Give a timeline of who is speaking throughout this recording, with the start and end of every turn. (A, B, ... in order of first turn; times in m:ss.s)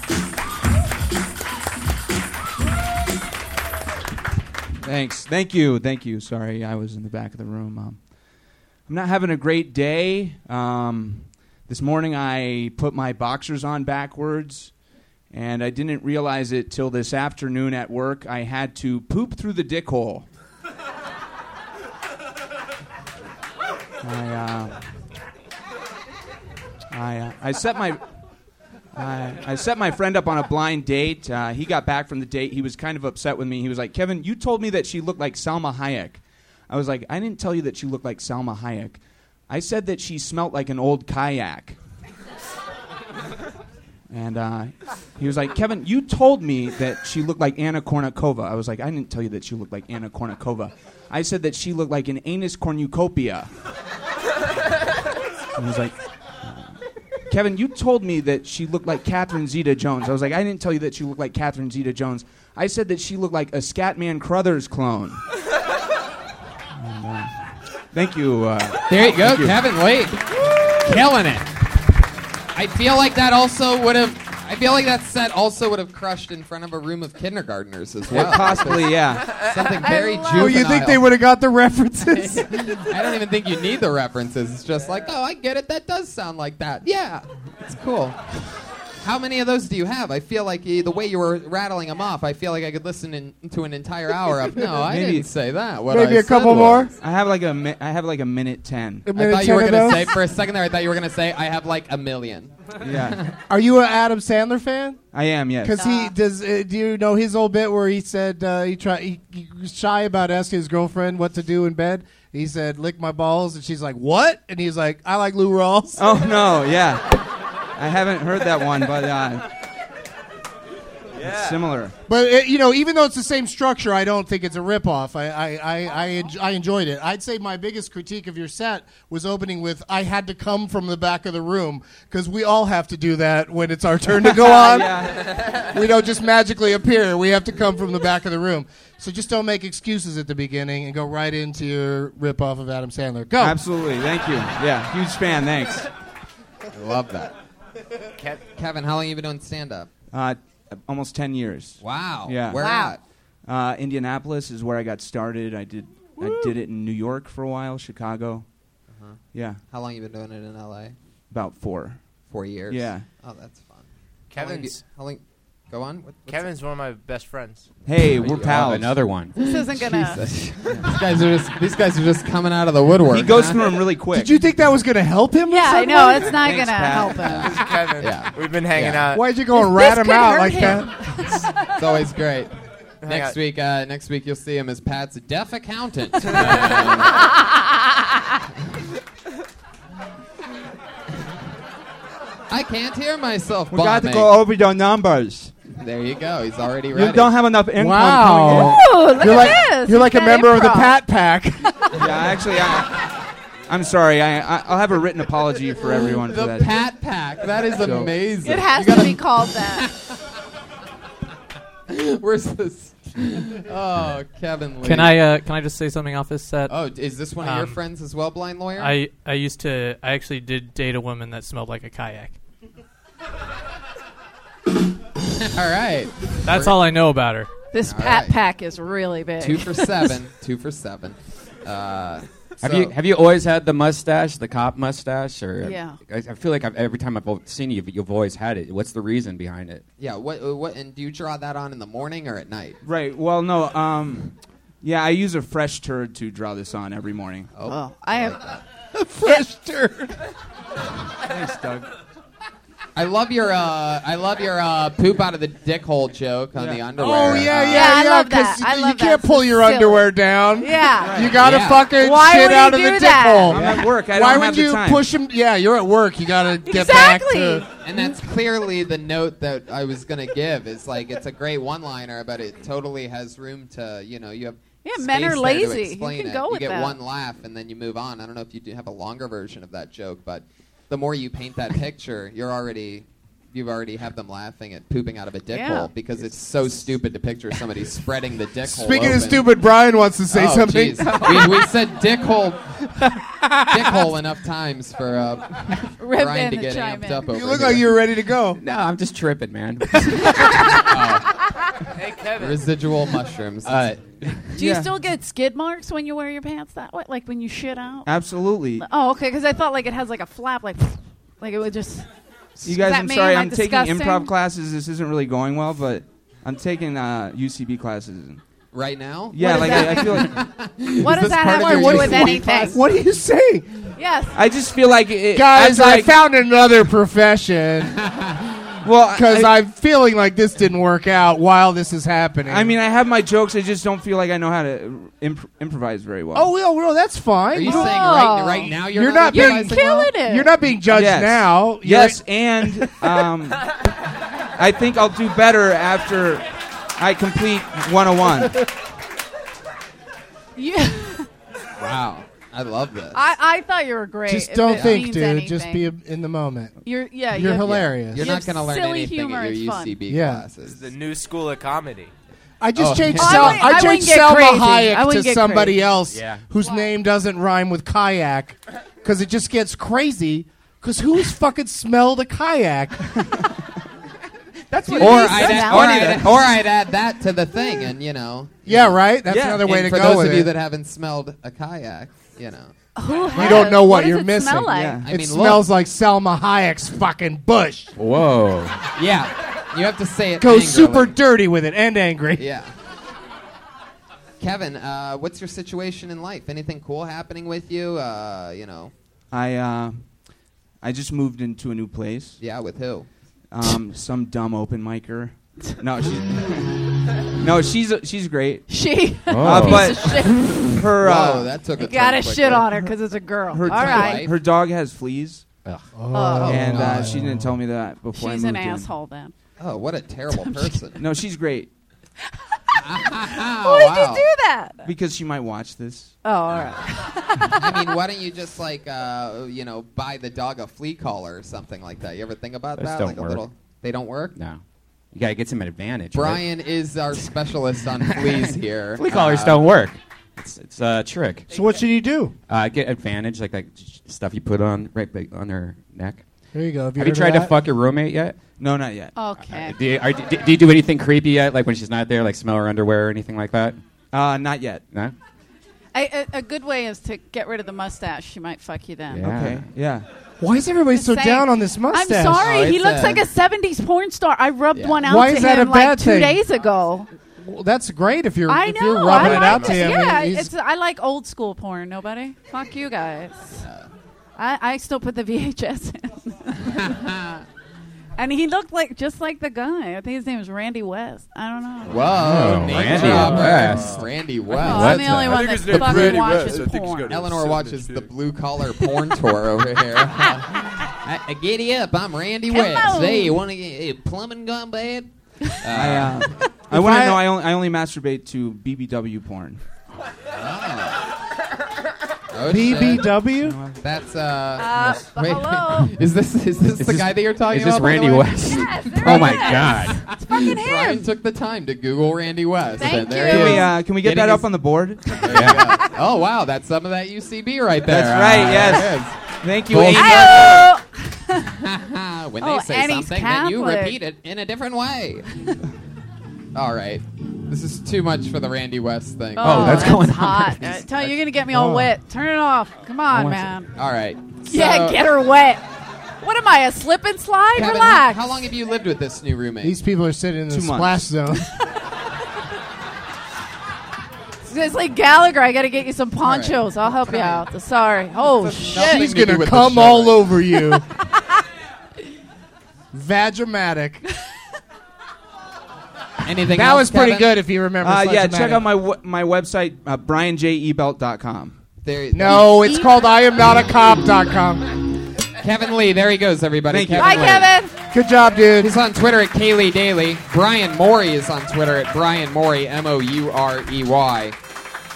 0:04.8-0:08.0 A
0:08.9-0:14.7 A
0:15.3-0:20.3 A
0:24.0-0:24.8 A
0:26.9-0:28.0 A
0:29.0-0:41.8 A
0:44.1-0:53.5 A
0:55.6-0:56.8 A
0:57.3-1:05.2 A
1:06.8-1:07.4 A
1:07.9-1:09.6 A
1:08.9-1:11.5 B
1:12.6-1:21.1 B
1:18.1-1:19.3 A
1:19.8-1:20.6 C
1:20.4-1:22.9 D
1:22.1-1:28.2 B
1:29.0-1:36.9 B
1:34.8-1:35.3 A
1:35.9-1:36.9 D
1:37.0-1:39.1 A
1:39.0-1:40.2 D
1:39.1-1:43.3 B
1:42.8-1:43.2 A
1:43.5-1:45.0 D
1:45.1-1:45.8 A
1:45.6-1:56.2 D
1:45.8-1:46.1 C
1:56.0-1:57.2 A
1:57.8-1:59.5 A
2:01.2-2:01.9 A
2:02.1-2:15.0 D
2:14.2-2:15.5 A
2:15.5-2:23.6 D
2:23.4-2:25.9 A
2:26.7-2:27.4 B
2:28.6-2:29.9 B
2:30.1-2:32.6 A
2:31.8-2:33.0 B
2:32.6-2:32.9 C
2:33.5-2:38.4 A
2:38.9-2:41.0 B
2:39.3-2:39.6 A
2:41.3-2:42.0 A
2:42.3-2:46.6 B
2:42.7-2:43.1 A
2:44.3-2:44.8 E
2:46.3-2:47.7 E
2:47.8-2:49.0 A
2:48.2-2:48.6 B
2:48.3-2:49.3 F
2:49.4-2:53.8 B
2:49.4-2:50.2 C
2:53.1-2:54.3 A
2:54.1-2:56.4 D
2:55.5-2:57.6 C
2:56.4-2:57.3 A
2:57.2-2:59.0 B
2:57.5-2:59.2 E
2:59.1-3:01.4 D
2:59.5-3:01.6 C
3:01.7-3:02.5 B
3:03.0-3:03.4 E
3:03.0-3:07.4 B
3:12.5-3:14.4 B
3:13.7-3:15.5 A
3:15.7-3:17.4 B
3:16.9-3:18.8 A
3:17.8-3:22.1 D
3:18.5-3:21.0 C
3:22.0-3:23.1 A
3:23.7-3:26.7 A
3:26.2-3:30.0 B
3:27.8-3:28.1 A
3:28.4-3:29.9 C
3:31.9-3:35.2 B
3:34.8-3:36.7 G
3:36.7-3:38.9 B
3:37.4-3:37.8 G
3:38.8-3:42.4 G
3:45.3-3:46.8 B
3:46.4-3:47.5 G
3:47.7-3:50.1 C
3:47.8-3:48.4 B
3:49.4-3:52.9 B
3:52.6-3:59.8 F
3:55.6-3:56.0 C
4:00.0-4:02.8 B
4:02.8-4:07.5 A
4:07.5-4:08.6 B
4:07.6-4:08.5 C
4:09.0-4:10.2 D
4:11.3-4:11.9 A
4:13.0-4:18.0 B
4:16.6-4:16.9 A
4:17.0-4:27.7 D
4:17.7-4:21.3 C
4:21.0-4:21.4 A
4:21.3-4:21.9 B
4:22.0-4:23.6 C
4:23.5-4:25.0 A
4:26.6-4:27.7 C
4:27.8-4:49.5 B
4:34.8-4:37.0 C
4:45.5-4:45.9 C
4:48.6-4:51.6 D
4:50.3-4:52.7 B
4:53.7-4:57.9 B
4:56.0-4:57.3 C
4:57.3-4:58.6 D
4:58.6-5:00.6 F
5:00.7-5:01.4 B
5:02.0-5:02.6 E
5:02.4-5:04.4 B
5:03.7-5:04.3 F
5:04.6-5:08.1 C
5:04.6-5:04.9 A
5:08.1-5:08.8 A
5:08.8-5:12.1 C
5:12.6-5:14.3 C
5:12.6-5:18.4 A
5:18.7-5:22.8 B
5:19.3-5:20.3 A
5:19.4-5:20.3 C
5:21.0-5:22.8 C
5:21.3-5:23.7 D
5:24.0-5:24.4 C
5:24.4-5:26.1 A
5:25.3-5:28.0 D
5:28.0-5:28.8 B
5:28.8-5:29.5 A
5:29.1-5:32.8 D
5:32.5-5:36.5 A
5:36.3-5:38.0 D
5:37.5-5:40.1 B
5:37.6-5:40.5 C
5:38.8-5:43.0 D
5:40.9-5:43.6 A
5:44.6-5:46.4 A
5:47.0-5:48.6 A
5:50.6-5:51.3 C
5:51.8-5:53.2 B
5:53.1-5:55.9 C
5:54.3-5:56.8 D
5:54.7-5:55.0 B
5:56.8-6:00.0 C
5:57.3-5:58.3 D
5:57.5-6:00.9 B
6:00.1-6:00.4 D
6:00.6-6:02.1 E
6:02.6-6:13.3 D
6:02.8-6:03.7 B
6:03.2-6:05.8 C
6:06.1-6:06.5 E
6:14.7-6:16.5 A
6:14.8-6:16.3 C
6:15.0-6:19.0 B
6:18.6-6:20.5 D
6:19.3-6:19.8 A
6:19.6-6:22.7 B
6:23.0-6:25.0 C
6:23.3-6:23.7 B
6:23.3-6:27.9 D
6:24.7-6:25.1 A
6:25.0-6:25.7 B
6:28.0-6:28.8 F
6:29.0-6:31.2 B
6:30.4-6:32.4 D
6:32.4-6:32.7 B
6:34.4-6:38.9 B
6:39.3-6:40.1 A
6:40.8-6:42.4 A
6:42.4-6:43.1 B
6:43.5-6:46.8 A
6:47.4-6:48.6 A
6:48.7-6:50.6 C
6:49.3-6:50.3 F
6:49.4-6:51.5 A
6:51.0-6:52.7 B
6:51.8-6:54.3 C
6:53.5-6:55.4 A
6:53.7-6:54.3 B
6:56.0-6:57.5 D
6:56.1-6:56.8 C
6:56.5-6:58.9 A
6:58.1-6:59.3 C
6:59.6-7:01.0 B
7:00.4-7:00.8 C
7:01.0-7:01.7 A
7:02.8-7:04.3 B
7:03.6-7:04.9 C
7:04.8-7:06.1 A
7:06.2-7:07.8 C
7:07.6-7:14.4 B
7:12.8-7:13.4 F
7:14.4-7:14.6 F
7:15.1-7:16.4 F
7:16.1-7:19.6 B
7:18.1-7:21.5 F
7:21.5-7:22.3 D
7:22.5-7:26.2 F
7:26.5-7:27.5 D
7:27.0-7:28.4 F
7:28.6-7:29.1 A
7:29.2-7:29.8 C
7:29.4-7:33.8 F
7:34.1-7:34.8 A
7:35.9-7:39.3 C
7:39.1-7:39.7 F
7:39.2-7:40.1 A
7:40.4-7:42.5 D
7:40.9-7:47.1 C
7:42.4-7:43.3 B
7:45.0-7:46.4 D
7:47.4-7:50.5 D
7:48.5-7:53.7 C
7:49.2-7:49.8 E
7:53.6-7:53.9 B
7:54.4-7:56.9 C
7:56.6-7:57.4 B
7:58.2-8:02.1 C
8:01.9-8:16.3 B
8:02.1-8:04.0 F
8:02.7-8:04.0 E
8:04.6-8:07.2 C
8:04.6-8:05.5 F
8:05.2-8:08.1 E
8:12.5-8:13.4 C
8:15.7-8:19.6 A
8:16.7-8:17.3 D
8:20.3-8:21.1 B
8:22.3-8:23.2 B
8:22.5-8:23.6 D
8:23.4-8:23.8 A
8:23.8-8:34.5 B
8:24.6-8:25.9 C
8:26.8-8:30.0 F
8:28.5-8:31.1 C
8:32.8-8:33.7 C
8:33.2-8:35.2 A
8:35.0-8:40.7 B
8:35.3-8:35.6 F
8:37.9-8:40.7 A
8:40.0-8:41.5 C
8:41.5-8:45.3 B
8:42.4-8:44.0 C
8:46.5-8:50.0 B
8:49.4-8:53.7 C
8:49.4-8:51.1 F
8:51.5-8:51.9 D
8:53.8-8:55.1 B
8:54.5-8:55.6 C
8:56.2-8:58.4 C
8:57.6-8:59.8 B
8:59.6-9:01.5 D
9:00.5-9:01.0 A
9:04.4-9:09.0 C
9:06.2-9:07.4 B
9:08.4-9:10.4 B
9:08.7-9:10.8 D
9:12.9-9:14.0 D
9:16.2-9:17.3 B
9:16.5-9:18.7 D
9:17.8-9:21.6 A
9:21.8-9:22.8 B
9:22.1-9:24.7 D
9:22.3-9:23.1 C
9:25.4-9:27.5 B
9:26.7-9:27.4 A
9:27.0-9:27.7 C
9:27.9-9:28.8 D
9:28.6-9:34.4 B